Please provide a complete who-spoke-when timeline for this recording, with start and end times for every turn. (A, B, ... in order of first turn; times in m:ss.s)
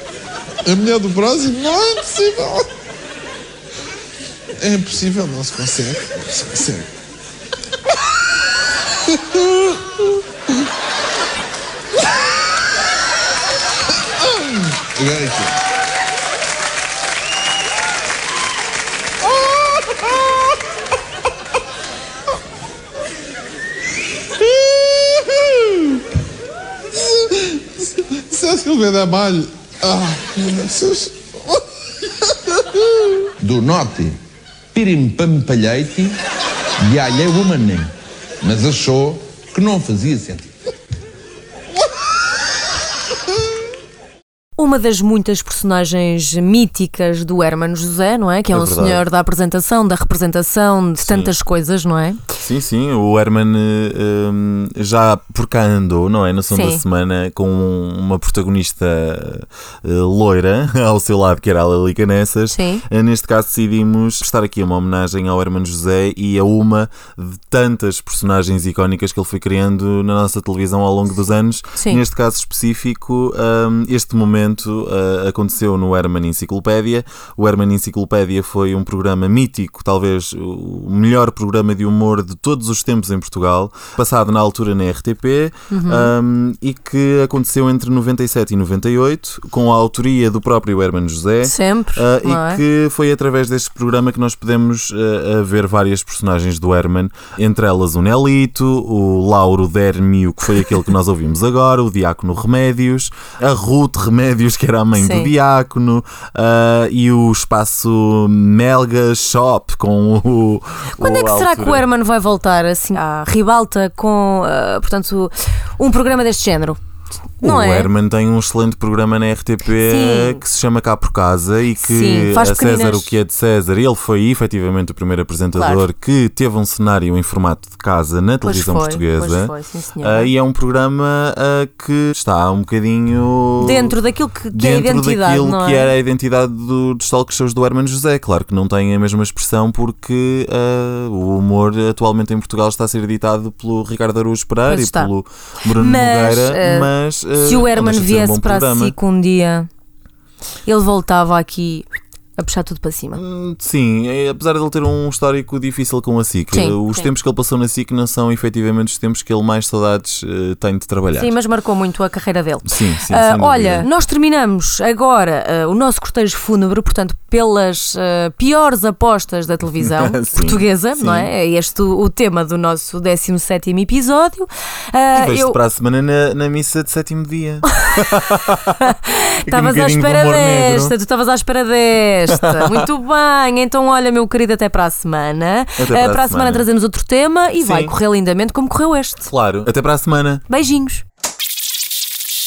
0:00.6-0:02.7 A
0:04.6-0:06.9 A
0:09.1-0:10.0 A
0:14.2-0:15.6 A
0:19.2-0:20.3 A
0:24.4-0:26.0 A
0:27.8-0:31.6 A
0:33.4-0:34.2 B
0:34.7-0:36.1 B
0:36.8-0:40.5 B
0:44.6-0:52.2 C
0:48.5-0:49.0 D
0:51.0-0:51.3 D
0:52.4-1:51.8 D
0:56.5-0:56.8 C
1:02.5-1:02.8 C
1:25.7-1:26.1 C
1:31.4-1:32.6 C
1:45.0-1:45.3 C
1:51.0-1:56.8 C
1:57.4-1:57.9 C
1:57.4-2:13.9 D
1:59.8-2:00.4 C
2:01.8-2:03.1 C
2:05.6-2:05.8 C
2:08.4-2:10.3 C
2:13.6-2:15.9 C
2:14.5-2:28.9 D
2:24.7-2:25.1 C
2:25.7-2:29.7 C
2:30.6-2:31.8 C
2:32.4-2:33.2 C
2:33.1-2:41.3 D
2:36.5-2:37.1 C
2:41.2-2:55.6 C
2:42.6-2:43.9 D
2:49.8-2:51.3 D
2:55.1-2:58.8 D
2:57.8-2:58.0 C
2:58.8-3:09.3 C
2:59.4-3:00.9 D
3:02.4-3:02.8 D
3:05.8-3:06.6 D
3:07.6-3:07.9 D
3:09.2-3:10.4 D
3:10.5-3:11.0 C